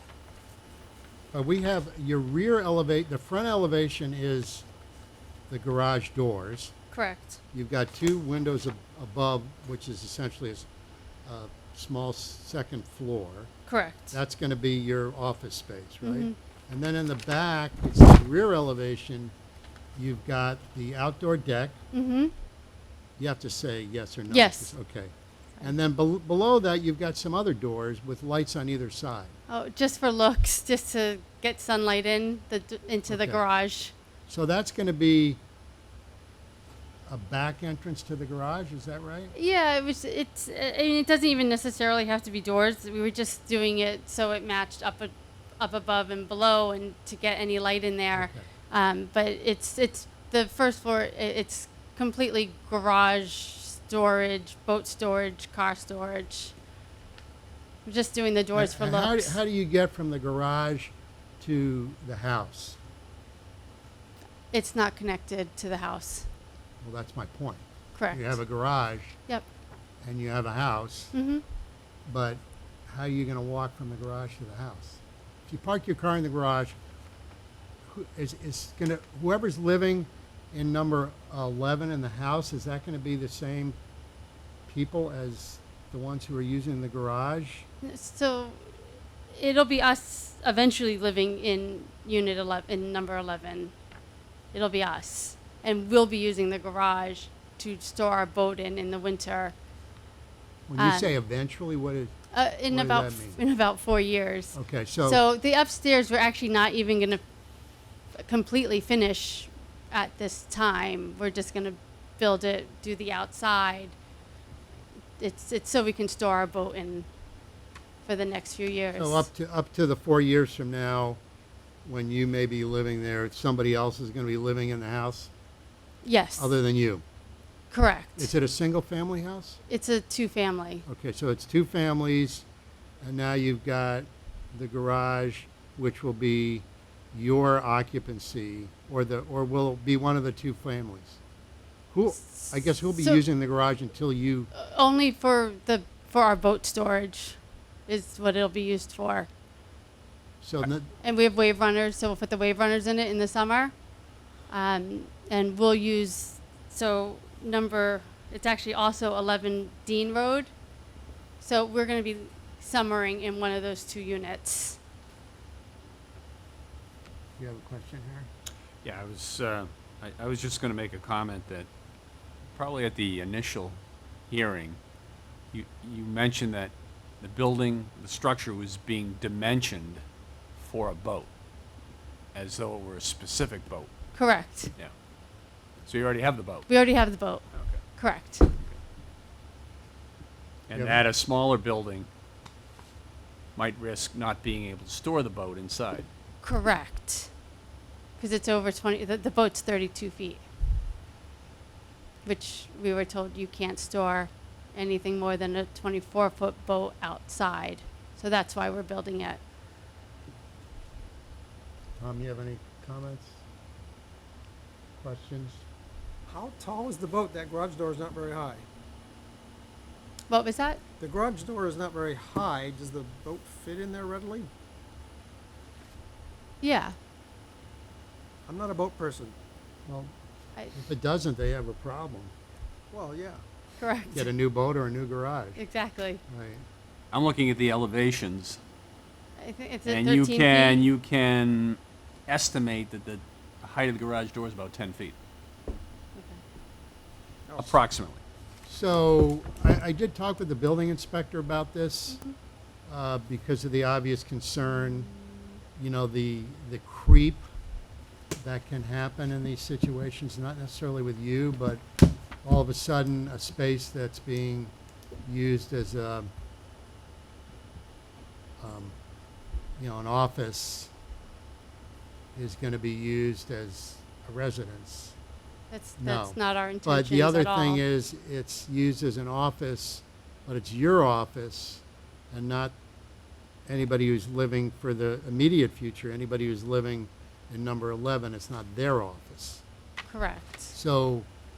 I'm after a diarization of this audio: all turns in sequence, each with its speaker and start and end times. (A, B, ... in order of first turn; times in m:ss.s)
0:01.3-0:04.7 A
0:05.5-0:06.7 A
0:06.9-0:07.4 B
0:07.5-0:10.7 A
0:11.2-0:13.5 A
0:13.7-0:14.2 B
0:14.1-0:19.3 A
0:16.0-0:16.3 B
0:20.0-0:21.8 A
0:21.9-0:22.3 B
0:23.2-0:29.3 A
0:24.3-0:24.7 B
0:29.5-0:33.9 B
0:33.1-0:33.4 A
0:34.3-0:35.4 A
0:37.1-0:39.3 A
0:39.3-0:56.5 B
0:48.1-0:48.4 A
0:57.8-0:59.4 B
0:58.5-1:02.8 A
1:04.5-1:06.3 B
1:06.8-1:09.2 A
1:08.0-1:08.4 B
1:10.0-1:11.1 A
1:11.1-1:11.4 B
1:12.1-1:16.8 A
1:17.9-1:23.8 A
1:24.7-1:27.7 A
1:27.8-1:28.8 B
1:29.3-1:33.7 B
1:34.5-1:39.6 B
1:40.7-1:42.1 A
1:40.8-1:41.1 B
1:42.3-1:47.2 B
1:42.7-1:43.4 A
1:44.5-1:45.2 A
1:48.1-1:54.0 B
1:55.2-1:57.1 B
1:58.0-1:59.3 B
1:59.0-2:01.2 A
2:01.8-2:05.3 A
2:06.0-2:06.6 B
2:06.4-2:07.0 A
2:07.7-2:08.3 B
2:08.2-2:09.6 A
2:09.7-2:10.8 B
2:10.8-2:12.4 A
2:13.0-2:21.2 A
2:21.9-2:24.5 A
2:22.2-2:23.2 B
2:24.5-2:29.3 B
2:30.4-2:30.9 A
2:31.0-2:33.7 B
2:34.5-2:40.5 B
2:41.4-2:44.8 B
2:47.4-2:48.3 A
2:48.8-2:51.7 C
2:52.5-2:54.8 C
2:55.5-3:00.0 C
3:00.6-3:01.3 C
3:02.3-3:03.9 C
3:04.1-3:04.7 B
3:05.8-3:06.7 C
3:06.7-3:07.4 B
3:07.5-3:07.8 C
3:08.0-3:08.5 B
3:08.5-3:08.8 C
3:10.7-3:12.1 C
3:10.7-3:11.0 A
3:13.6-3:16.1 C
3:16.4-3:17.3 B
3:18.2-3:20.4 B
3:22.2-3:29.4 B
3:32.0-3:33.4 A
3:35.0-3:35.6 A
3:36.3-3:38.6 D
3:40.3-3:40.8 B
3:41.0-3:44.5 D
3:46.6-3:47.0 B
3:48.5-3:49.4 D
3:49.9-3:50.1 A
3:50.7-3:52.3 A
3:52.9-3:53.4 D
3:53.8-3:54.3 B
3:54.1-3:55.6 A
3:55.6-3:56.2 B
3:56.2-3:56.6 A
3:57.1-3:58.6 C
3:59.4-4:00.9 B
3:59.8-4:05.1 C
4:06.2-4:06.4 B
4:07.5-4:07.8 D
4:07.6-4:08.2 C
4:08.7-4:12.2 A
4:12.9-4:15.1 A
4:15.8-4:17.4 A
4:18.4-4:21.8 A
4:22.4-4:24.7 A
4:25.2-4:26.3 A
4:28.6-4:29.0 A
4:29.8-4:30.9 A
4:32.3-4:35.2 A
4:35.7-4:37.8 B
4:36.0-4:42.8 A
4:43.7-4:49.6 A
4:50.1-4:50.7 B
4:50.7-4:51.3 A